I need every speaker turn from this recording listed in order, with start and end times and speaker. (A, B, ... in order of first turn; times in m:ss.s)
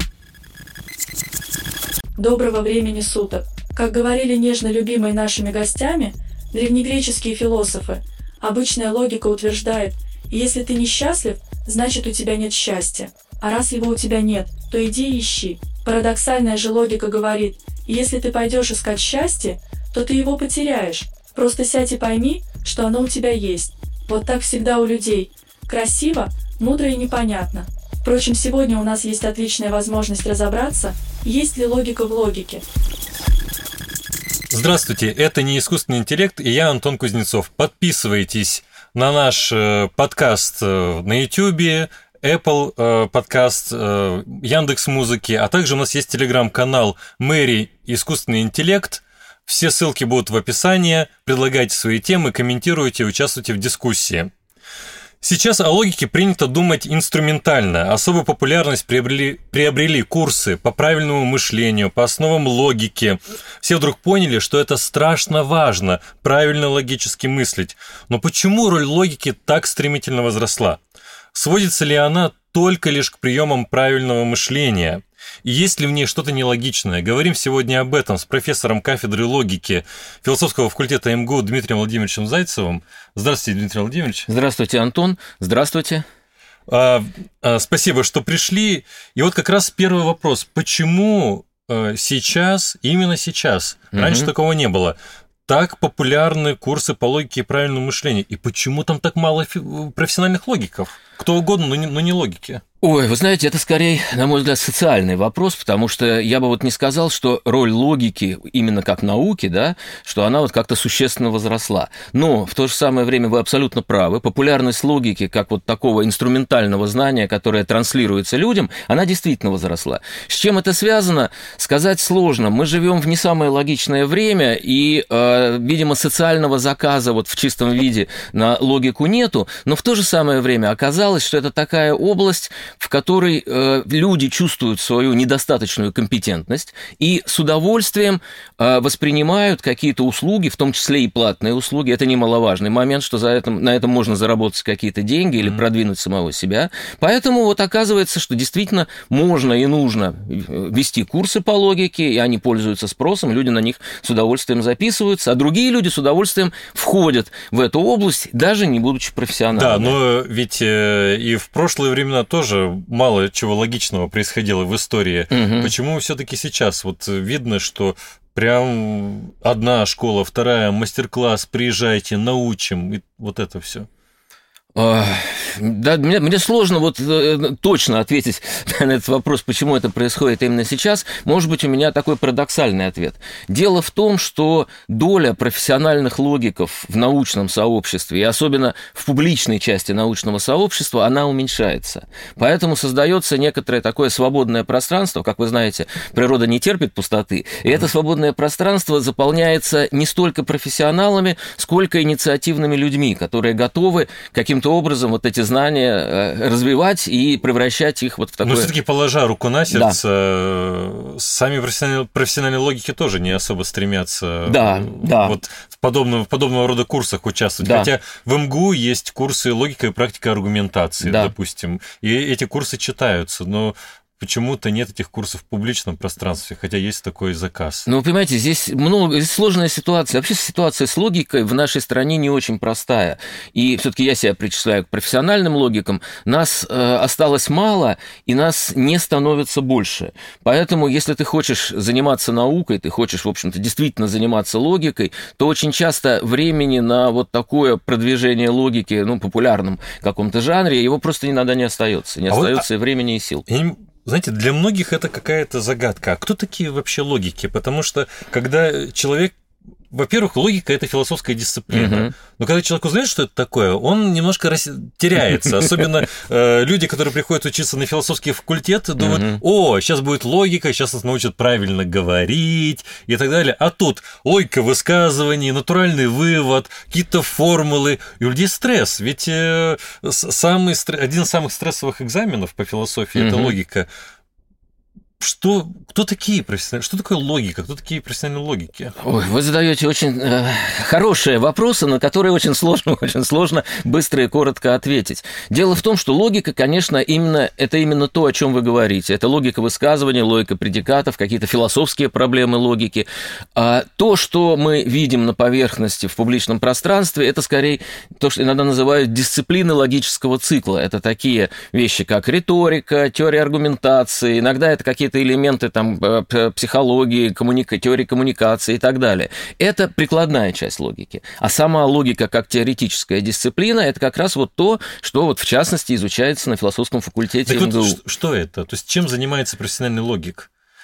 0:02.2-0:32.6 A
0:34.5-0:54.3 B
0:55.2-1:10.8 B
1:11.3-1:24.3 B
1:24.3-1:26.0 C
1:26.7-1:42.6 B
1:33.9-1:34.3 C
1:42.8-2:40.0 C
2:39.5-2:53.9 B
2:45.3-2:45.7 C
2:54.8-3:28.7 C
3:28.4-3:47.9 B
3:29.7-3:30.0 C
3:34.5-3:35.4 C
3:37.6-3:37.9 C
3:41.0-3:41.3 C
3:47.9-4:13.4 C
4:12.3-4:12.7 B
4:13.5-4:19.4 B
4:19.9-4:43.9 B
4:21.7-4:22.1 C
4:29.0-4:29.4 C
4:43.2-4:43.6 C
4:45.2-4:48.9 B
4:49.0-5:28.0 C
5:27.5-5:30.5 B